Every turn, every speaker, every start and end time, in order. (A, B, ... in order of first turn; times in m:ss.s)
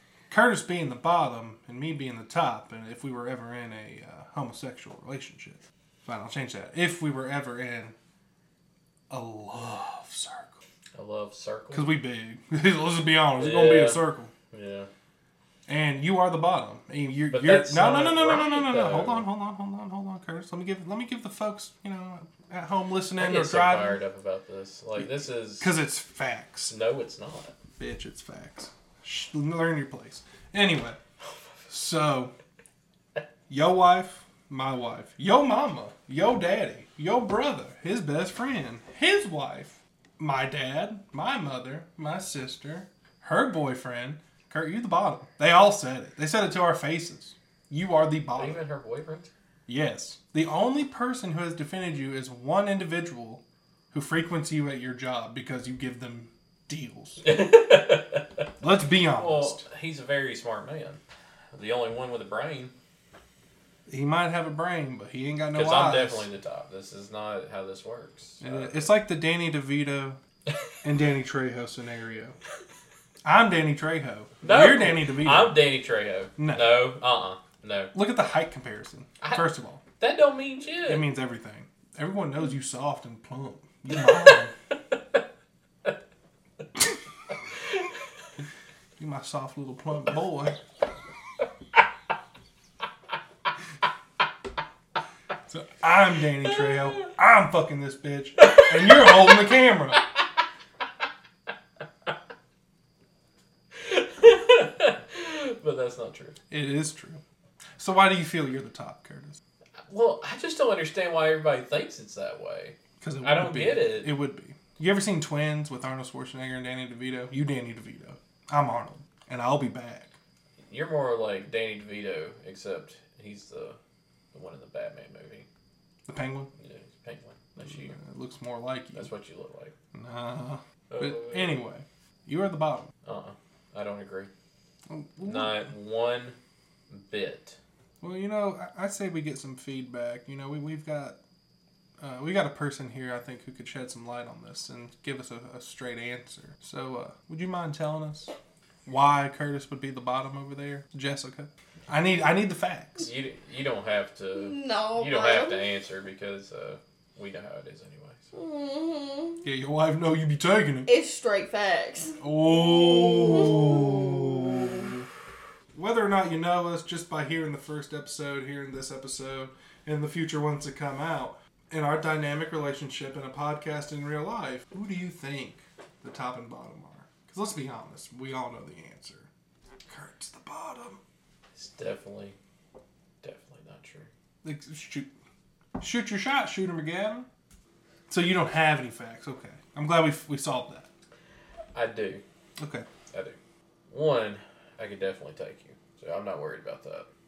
0:00.3-0:07.9 A
0:09.1-0:10.6 A
0:10.9-0:11.9 B
0:11.7-0:14.3 A
0:13.4-0:14.9 B
0:15.7-0:24.0 A
0:17.3-0:19.2 B
0:23.2-0:25.7 B
0:25.6-0:26.7 A
0:26.7-0:27.5 B
0:27.8-0:31.0 A
0:31.7-0:32.3 A
0:33.5-0:48.6 A
0:48.4-0:49.3 B
0:49.7-0:57.2 A
0:57.2-0:58.4 B
0:58.6-0:59.6 A
0:59.2-1:01.0 B
1:01.5-1:02.7 B
1:03.9-1:06.3 A
1:05.5-1:08.9 B
1:08.4-1:10.2 A
1:10.8-1:12.4 A
1:13.2-1:15.6 A
1:14.4-1:17.9 B
1:16.4-1:16.8 A
1:17.9-1:19.8 A
1:19.2-1:21.0 B
1:20.8-1:24.5 A
1:29.0-1:30.6 A
1:35.5-1:40.0 A
1:38.6-1:39.0 B
1:43.7-1:46.4 B
1:46.5-1:47.2 A
1:47.8-1:49.4 A
1:49.9-1:54.1 B
1:53.0-2:00.1 A
2:00.7-2:03.8 B
2:04.3-2:05.5 B
2:06.1-2:06.5 A
2:06.6-2:08.0 B
2:07.6-2:09.1 A
2:08.9-2:09.7 B
2:09.9-2:12.9 A
2:10.9-2:11.6 B
2:13.0-2:14.3 B
2:14.9-2:15.7 A
2:15.2-2:16.4 B
2:16.9-2:17.6 B
2:18.0-2:21.2 A
2:22.0-2:28.3 A
2:28.8-2:33.1 A
2:33.0-2:38.3 B
2:34.4-2:35.6 C
2:38.3-2:39.4 C
2:39.4-2:40.9 A
2:40.9-2:44.9 C
2:42.2-2:45.0 A
2:45.7-2:59.3 A
2:59.9-3:01.0 A
3:01.6-3:02.4 B
3:03.2-3:04.1 B
3:04.4-3:05.1 A
3:05.8-3:07.3 A
3:08.1-3:10.9 A
3:11.7-3:12.2 B
3:12.6-3:12.9 A
3:13.1-3:13.4 B
3:13.9-3:17.1 B